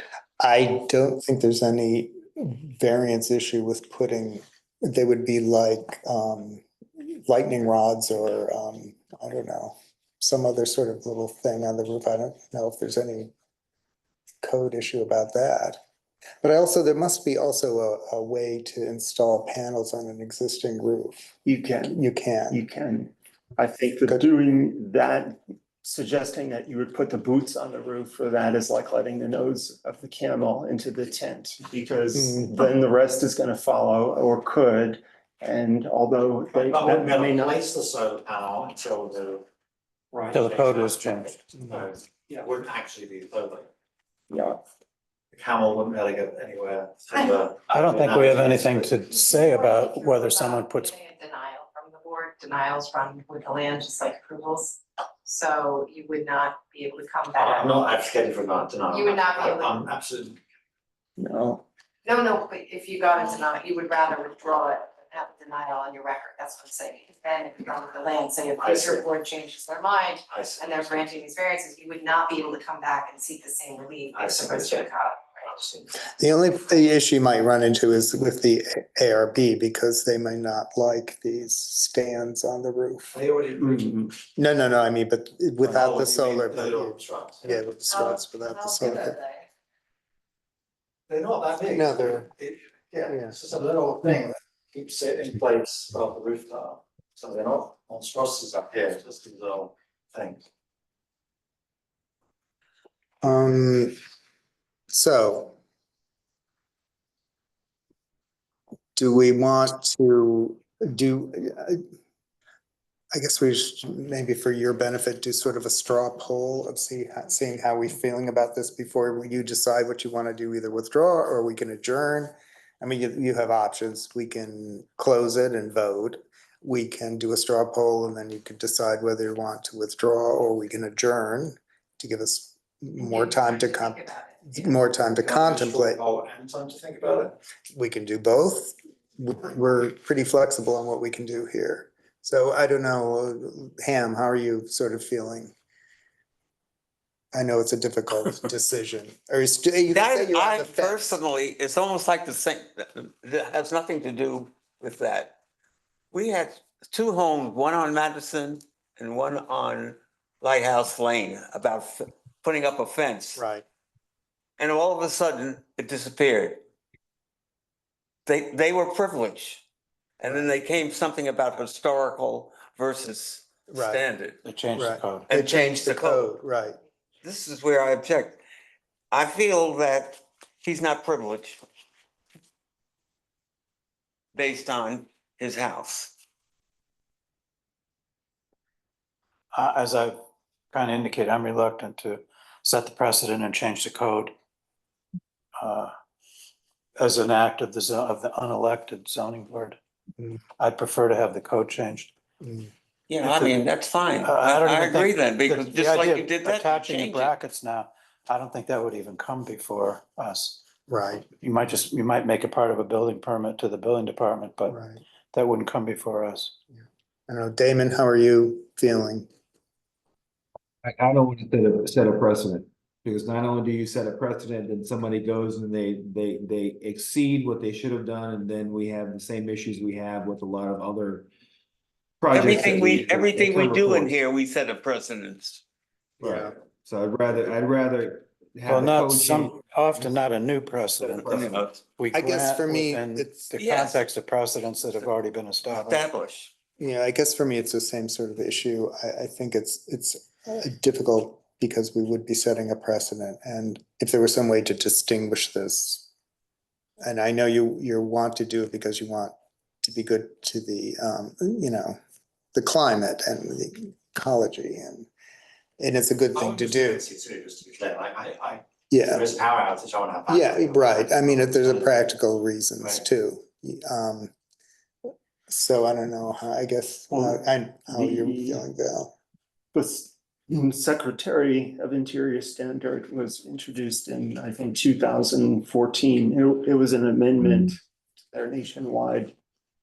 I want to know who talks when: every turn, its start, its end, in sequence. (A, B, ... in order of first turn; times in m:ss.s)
0:00.4-0:13.3 A
0:14.4-0:15.8 A
0:16.4-0:21.3 A
0:21.4-0:37.6 B
0:21.9-0:22.6 A
0:36.6-0:39.4 C
0:40.2-0:41.0 C
0:40.3-0:41.4 D
0:41.6-0:43.7 C
0:44.3-0:44.6 B
0:45.3-0:49.0 C
0:47.7-0:50.9 D
0:49.1-0:57.9 E
0:57.4-1:00.4 C
0:58.9-0:59.9 E
1:01.2-1:01.6 B
1:02.0-1:15.5 E
1:08.6-1:09.0 C
1:10.3-1:10.8 C
1:14.1-1:14.9 C
1:15.5-1:15.9 C
1:16.2-1:23.1 A
1:23.1-1:24.0 C
1:23.6-1:24.1 B
1:24.4-1:29.1 A
1:25.6-1:27.5 C
1:27.9-1:29.4 E
1:31.1-1:40.4 C
1:31.7-1:32.3 A
1:33.1-1:33.3 A
1:43.2-1:44.0 A
1:44.9-1:45.5 A
1:49.0-1:51.8 A
1:53.1-2:16.0 A
2:13.0-2:14.6 E
2:15.2-2:17.4 C
2:17.7-2:25.5 A
2:27.3-2:31.1 A
2:29.9-2:35.3 F
2:36.1-2:43.4 F
2:43.4-2:43.6 A
2:44.6-2:46.6 F
2:48.2-2:49.6 F
2:50.2-2:54.4 F
2:50.3-2:50.5 A
2:53.7-2:54.0 A
2:54.4-2:55.3 D
2:54.8-2:56.8 A
2:55.3-2:56.3 F
2:57.2-2:58.4 F
2:59.1-3:01.6 F
3:04.3-3:06.1 F
3:09.5-3:10.2 D
3:10.7-3:14.3 D
3:15.6-3:15.9 D
3:17.0-3:19.8 D
3:20.6-3:22.1 D
3:22.4-3:22.7 A
3:23.1-3:27.3 F
3:23.2-3:23.6 D
3:24.2-3:30.6 D
3:30.9-3:31.2 A
3:31.3-3:34.7 D
3:34.6-3:35.0 A
3:35.3-3:36.5 D
3:36.8-3:39.3 A
3:40.8-3:51.3 G
3:52.2-3:54.1 G
3:52.3-3:55.6 F
3:56.2-3:56.5 A
3:56.2-4:00.1 G
3:58.6-4:06.0 D
4:01.1-4:01.8 F
4:02.1-4:03.5 A
4:03.6-4:04.0 F
4:05.7-4:06.5 F
4:06.8-4:16.1 A
4:17.0-4:22.0 A
4:22.5-4:25.1 A
4:25.8-4:27.0 A
4:26.3-4:32.1 C
4:28.9-4:29.4 A
4:30.3-4:34.3 A
4:35.5-4:39.1 A
4:37.1-4:37.4 B
4:37.9-4:38.6 B
4:39.7-4:47.8 B
4:48.3-4:49.3 B